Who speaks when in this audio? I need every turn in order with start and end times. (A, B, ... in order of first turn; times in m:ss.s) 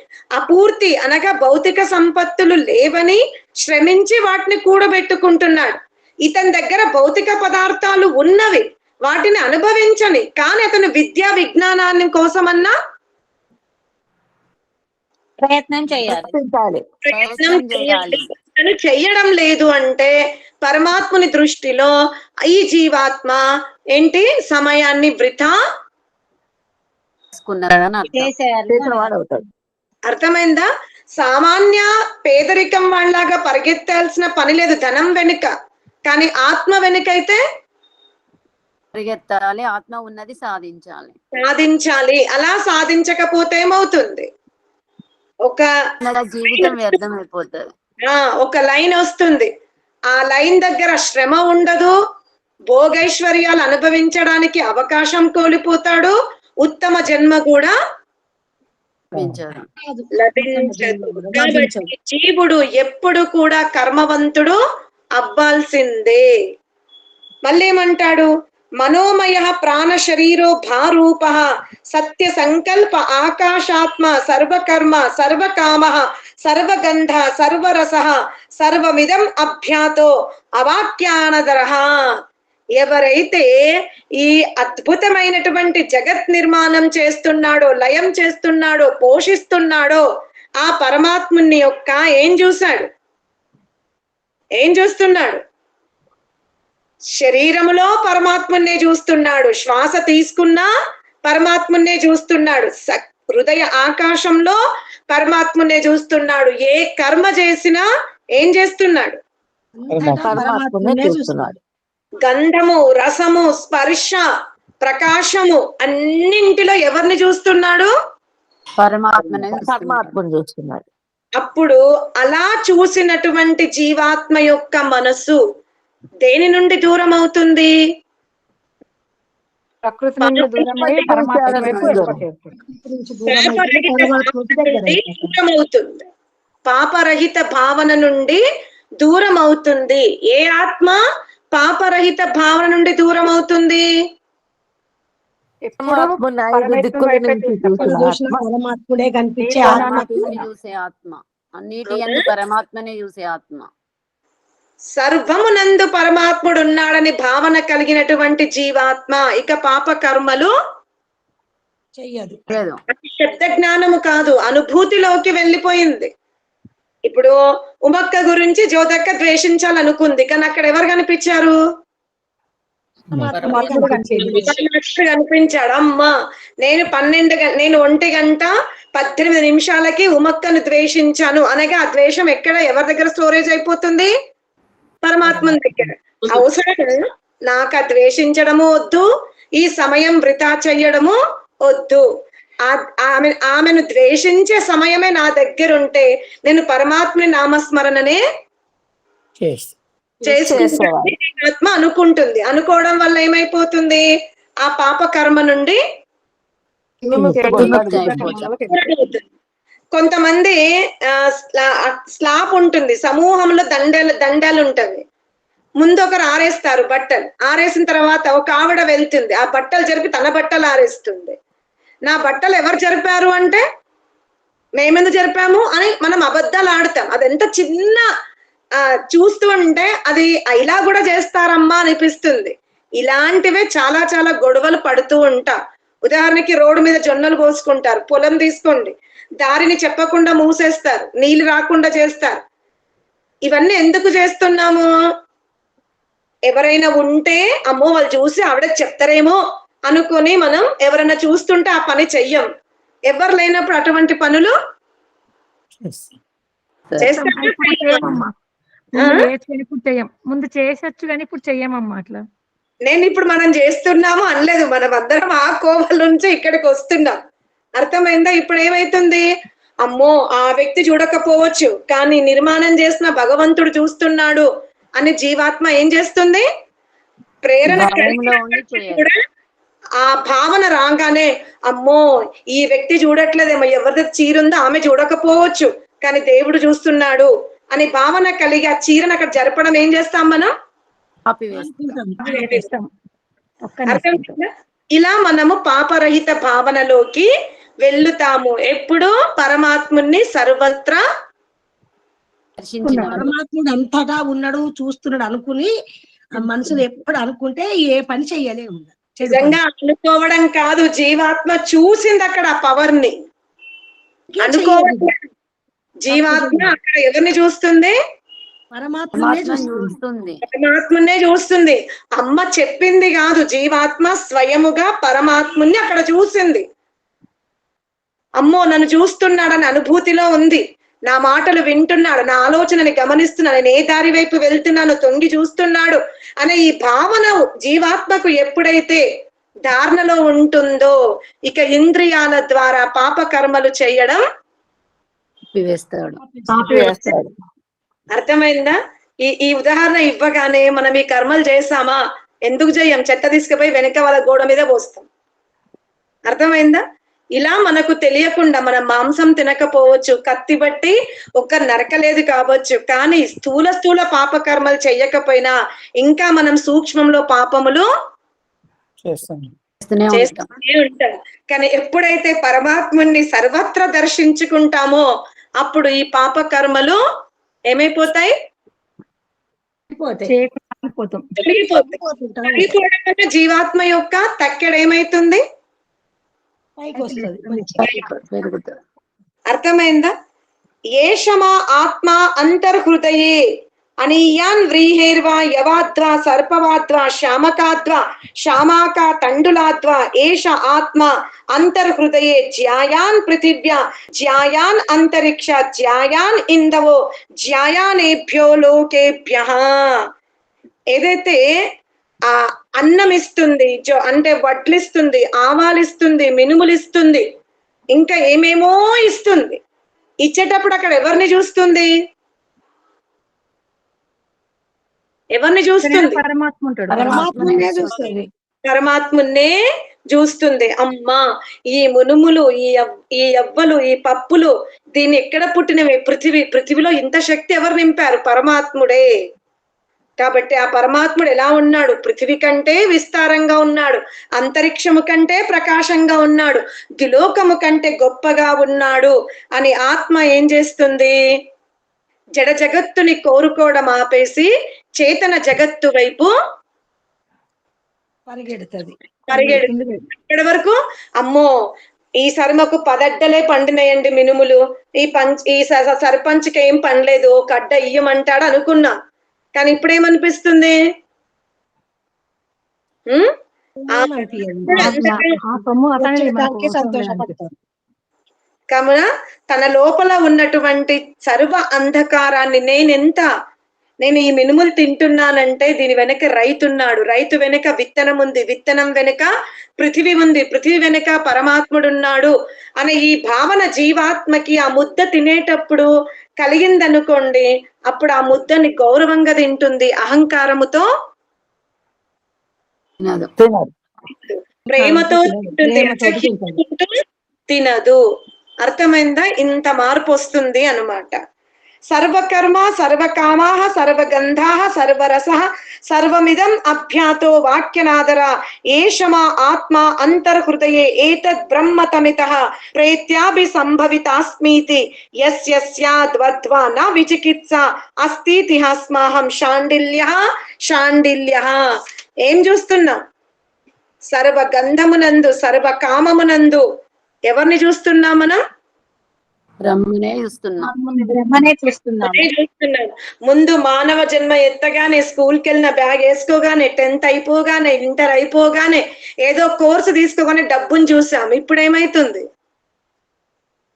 0:00.4-0:12.7 A
0:15.4-0:16.3 B
0:16.0-0:16.8 C
0:17.1-0:20.1 A
0:17.1-0:18.3 D
0:20.6-0:21.9 A
0:22.5-0:23.4 A
0:23.9-0:25.6 A
0:27.3-0:28.3 D
0:28.0-0:29.1 B
0:28.7-0:29.5 C
0:30.1-0:30.7 A
0:31.2-0:35.5 A
0:36.1-0:37.4 A
0:38.9-0:41.2 D
0:41.4-0:44.3 A
0:46.0-0:47.7 D
0:46.5-0:47.0 A
0:48.1-0:49.5 A
0:50.1-0:51.9 A
0:52.7-0:57.7 A
0:59.1-0:59.4 E
0:59.1-0:59.7 D
0:59.8-1:01.9 F
1:00.2-1:04.6 A
1:05.2-1:06.2 A
1:07.4-1:08.3 A
1:08.8-1:21.8 A
1:22.8-1:23.5 A
1:24.2-1:30.0 A
1:30.6-1:32.9 A
1:34.6-1:35.4 A
1:37.2-1:40.7 A
1:41.2-1:44.6 A
1:45.1-1:47.9 A
1:48.4-1:49.2 A
1:49.8-1:51.6 F
1:49.9-1:50.4 E
1:50.2-1:51.6 C
1:52.2-1:54.2 A
1:54.8-1:57.9 A
1:58.8-2:00.2 D
1:59.2-2:00.9 C
2:01.4-2:05.4 A
2:06.2-2:07.7 A
2:09.8-2:12.6 G
2:10.2-2:10.6 A
2:10.6-2:12.2 C
2:11.6-2:12.0 A
2:12.7-2:15.3 F
2:13.3-2:16.1 A
2:16.7-2:18.4 A
2:19.0-2:21.0 A
2:21.5-2:23.9 A
2:25.7-2:28.0 G
2:25.8-2:28.4 C
2:27.8-2:30.4 F
2:29.4-2:30.4 G
2:29.6-2:33.7 D
2:31.9-2:32.2 A
2:35.0-2:40.5 A
2:42.0-2:42.5 F
2:42.5-2:42.8 D
2:42.9-2:46.1 A
2:47.1-2:47.4 A
2:47.9-2:51.6 A
2:53.1-2:53.9 E
2:53.2-2:54.5 B
2:53.3-2:54.5 F
2:53.3-2:54.4 G
2:54.4-3:04.1 A
3:05.0-3:09.1 A
3:09.6-3:12.0 A
3:12.7-3:18.2 A
3:19.4-3:19.8 E
3:20.3-3:24.0 A
3:20.3-3:21.1 C
3:24.6-3:25.8 A
3:27.0-3:29.0 G
3:27.2-3:28.3 C
3:27.4-3:28.5 D
3:28.7-3:29.2 A
3:30.0-3:30.6 A
3:31.1-3:35.0 A
3:35.8-3:41.4 A
3:42.1-3:43.6 A
3:44.8-3:48.1 A
3:49.1-4:02.4 A
4:03.5-4:04.9 A
4:06.5-4:12.5 A
4:13.1-4:14.5 A
4:15.8-4:16.1 E
4:17.0-4:18.2 A
4:17.1-4:18.3 G
4:19.0-4:22.2 G
4:22.9-4:27.2 A
4:27.8-4:29.3 A
4:29.8-4:36.4 A
4:37.4-4:39.2 A
4:37.6-4:39.1 D
4:40.0-4:50.5 A
4:51.3-4:52.0 D
4:51.5-4:52.5 F
4:52.2-4:52.9 G
4:52.3-4:52.6 A
4:53.7-4:54.3 G
4:53.9-4:57.3 A
4:57.8-5:01.0 A
5:02.6-5:03.3 D
5:02.8-5:03.3 G
5:03.1-5:05.7 F
5:06.4-5:09.6 F
5:09.2-5:13.1 A
5:14.3-5:15.1 F
5:14.4-5:15.2 A
5:16.0-5:18.0 A
5:16.1-5:16.7 F
5:18.7-5:20.0 F
5:19.2-5:20.4 D
5:20.5-5:26.6 A
5:28.4-5:39.0 A
5:39.6-5:40.9 A
5:41.5-5:44.2 A
5:45.5-5:46.2 D
5:46.2-5:46.9 F
5:46.6-5:47.1 G
5:46.6-5:47.3 C
5:48.2-5:55.1 A
5:56.3-5:56.8 A
5:57.4-6:07.9 A
6:09.0-6:09.5 E
6:09.8-6:10.5 D
6:10.1-6:15.1 A
6:15.6-6:17.0 A
6:17.7-6:18.3 A
6:19.9-6:20.4 F
6:20.2-6:21.3 G
6:21.4-6:22.0 A
6:21.8-6:22.8 F
6:22.5-6:25.4 A
6:26.8-6:27.9 F
6:27.0-6:28.1 G
6:27.8-6:28.7 D
6:29.5-6:30.1 A
6:31.0-6:33.4 A
6:34.0-6:49.7 A
6:50.9-6:51.4 A
6:52.3-6:57.2 A
6:58.0-6:59.6 A
7:00.2-7:01.9 A
7:05.4-7:06.2 A
7:05.8-7:07.7 G
7:06.9-7:08.0 D
7:07.0-7:08.3 F
7:08.7-7:09.5 A
7:10.1-7:11.2 A
7:11.7-7:19.1 A
7:20.2-7:31.2 A
7:32.4-7:34.5 A
7:35.0-7:36.3 A
7:38.3-7:39.0 F
7:39.3-7:41.5 A
7:39.3-7:40.0 G
7:42.2-7:48.9 A
7:49.6-7:50.8 A
7:53.8-7:57.5 F
7:54.7-7:57.4 G
7:54.7-7:55.4 A
7:58.7-8:03.3 A
8:04.0-8:09.3 A
8:09.8-8:15.9 A
8:16.4-8:20.8 A
8:23.0-8:23.3 D
8:23.4-8:23.7 C
8:24.2-8:26.9 A
8:24.7-8:26.6 F
8:27.5-8:28.0 A
8:28.6-8:31.2 A
8:31.9-8:50.2 A
8:50.7-8:51.6 A
8:52.2-8:53.0 A
8:54.1-8:56.6 A
8:57.3-8:58.4 A
8:59.7-9:00.7 D
9:00.6-9:02.3 G
9:01.2-9:01.6 B
9:02.0-9:12.2 A